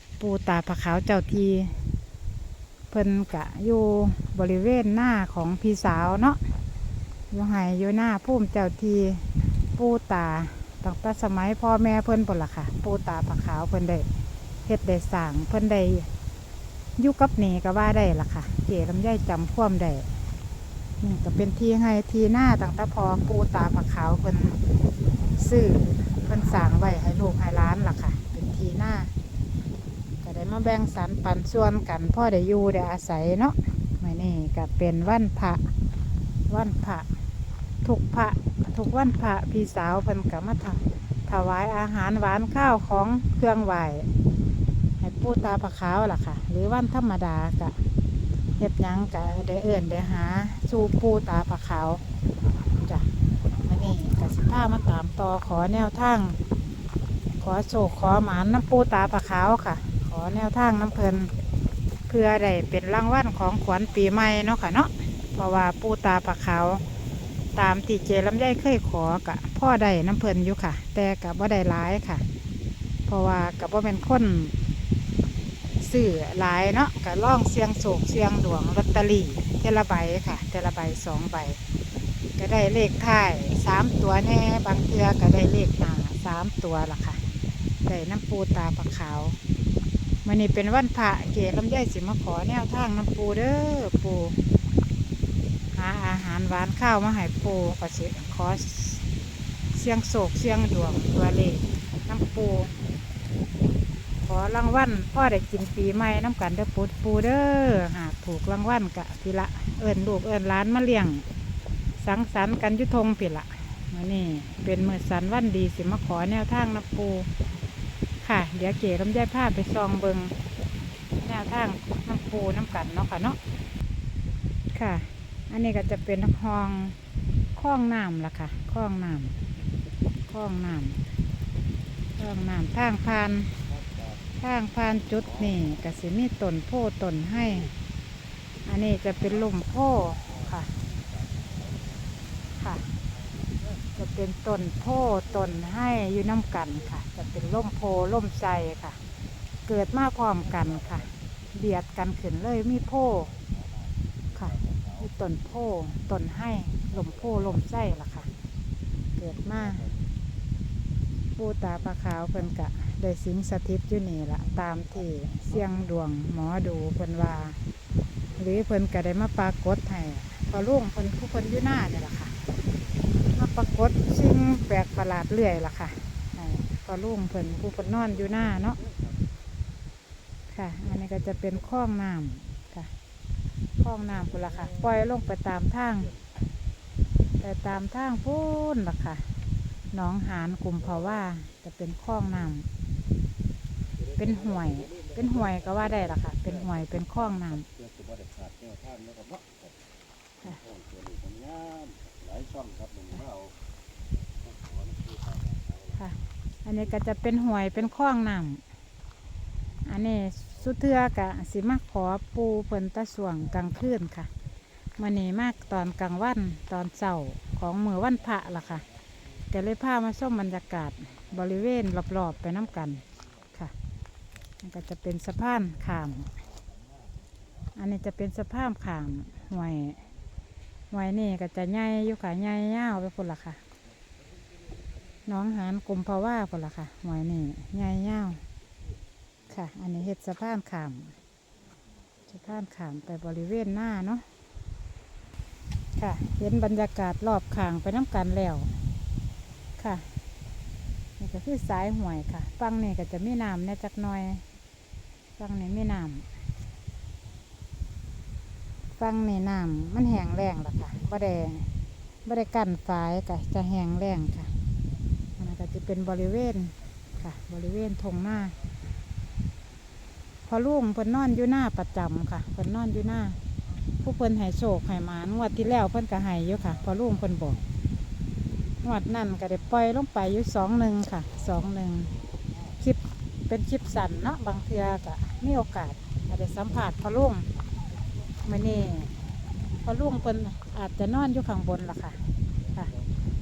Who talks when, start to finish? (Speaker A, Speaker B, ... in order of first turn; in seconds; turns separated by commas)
Speaker A: 0.2-1.8, Speaker A: 2.9-6.4, Speaker A: 7.3-14.1, Speaker A: 14.7-16.1, Speaker A: 17.0-20.1, Speaker A: 21.0-24.6, Speaker A: 25.4-29.1, Speaker A: 30.2-35.6, Speaker A: 36.5-37.1, Speaker A: 37.8-44.1, Speaker A: 45.0-47.8, Speaker A: 48.6-52.0, Speaker A: 52.8-53.1, Speaker A: 53.6-56.4, Speaker A: 57.4-61.3, Speaker A: 62.1-66.8, Speaker A: 67.6-72.2, Speaker A: 73.1-74.5, Speaker A: 75.8-81.6, Speaker A: 82.4-87.2, Speaker A: 87.9-89.4, Speaker A: 90.2-94.4, Speaker A: 95.8-99.0, Speaker A: 99.7-102.7, Speaker A: 104.2-111.2, Speaker A: 112.0-117.3, Speaker A: 118.2-120.3, Speaker A: 121.2-123.4, Speaker A: 124.7-127.0, Speaker A: 127.6-129.3, Speaker A: 130.3-131.0, Speaker A: 132.2-133.5, Speaker B: 133.6-134.2, Speaker A: 134.4-137.7, Speaker B: 135.2-135.6, Speaker A: 138.7-140.7, Speaker B: 139.1-139.6, Speaker B: 140.2-142.3, Speaker A: 142.6-142.8, Speaker B: 142.9-143.9, Speaker A: 144.0-149.0, Speaker A: 149.7-153.3, Speaker B: 150.4-151.2, Speaker B: 153.2-155.1, Speaker A: 154.3-158.3, Speaker B: 156.9-157.7, Speaker A: 159.2-159.8, Speaker B: 159.3-160.1, Speaker A: 161.4-167.6, Speaker B: 164.9-165.8, Speaker B: 168.3-168.7, Speaker A: 168.4-172.3, Speaker B: 172.5-173.1, Speaker A: 173.3-178.8, Speaker B: 177.4-179.3, Speaker A: 180.5-182.9, Speaker B: 180.8-181.8, Speaker A: 183.8-186.1, Speaker B: 184.0-185.2, Speaker A: 187.4-189.3, Speaker A: 189.9-192.7, Speaker B: 190.9-191.2, Speaker B: 194.0-199.7, Speaker A: 194.2-197.7, Speaker B: 200.4-203.5, Speaker B: 204.4-206.1, Speaker A: 206.0-208.6, Speaker A: 209.8-214.3, Speaker A: 215.0-218.8, Speaker A: 219.5-223.0, Speaker A: 224.6-226.3, Speaker B: 226.5-227.3, Speaker A: 227.8-230.0, Speaker A: 230.9-233.6, Speaker B: 234.3-234.9, Speaker A: 235.2-238.4, Speaker A: 239.5-241.1, Speaker A: 242.3-244.2, Speaker A: 246.0-248.7, Speaker A: 249.8-250.1, Speaker A: 251.2-254.4, Speaker A: 255.4-256.3, Speaker A: 259.0-261.7, Speaker A: 262.2-264.5, Speaker A: 265.4-268.6, Speaker A: 270.5-273.4, Speaker A: 274.0-277.6, Speaker A: 278.8-282.1, Speaker A: 282.8-287.5, Speaker A: 288.4-289.1, Speaker A: 289.8-292.2, Speaker B: 292.6-293.2